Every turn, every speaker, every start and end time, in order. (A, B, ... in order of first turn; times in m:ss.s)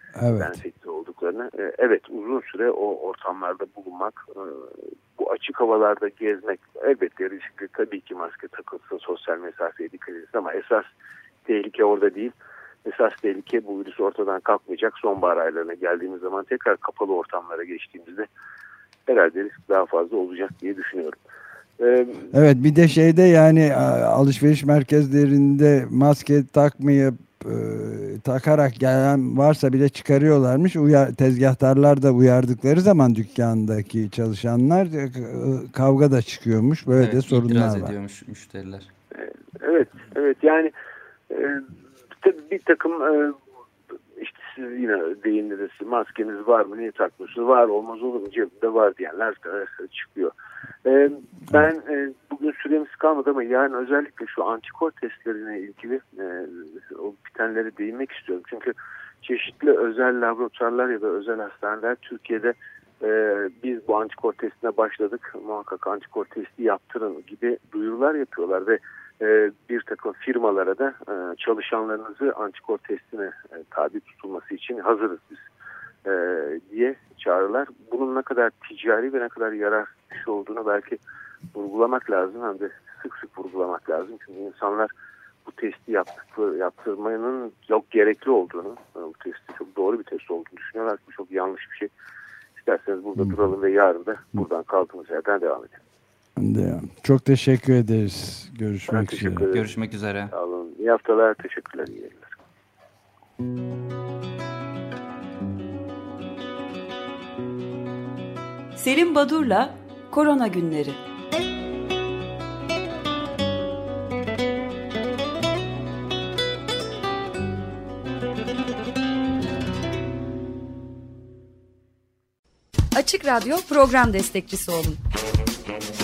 0:00.2-0:00.6 A
0:00.4-0:10.9 B
0:11.4-0:12.3 B
0:12.8-0:18.3 B
0:19.0-0:21.2 B
0:21.8-0:22.3 B
0:22.3-0:37.9 A
0:37.0-0:38.9 C
0:39.1-0:40.7 B
0:41.3-0:41.7 B
0:42.2-0:43.3 B
0:44.2-0:50.3 B
0:50.8-1:15.4 B
1:16.0-1:21.0 B
1:21.5-1:24.9 B
1:25.4-1:31.9 B
1:32.5-1:35.8 B
1:36.4-1:39.5 A
1:38.9-1:39.7 B
1:39.5-1:40.3 C
1:40.3-1:42.3 B
1:48.8-1:51.0 D
2:02.9-2:05.0 E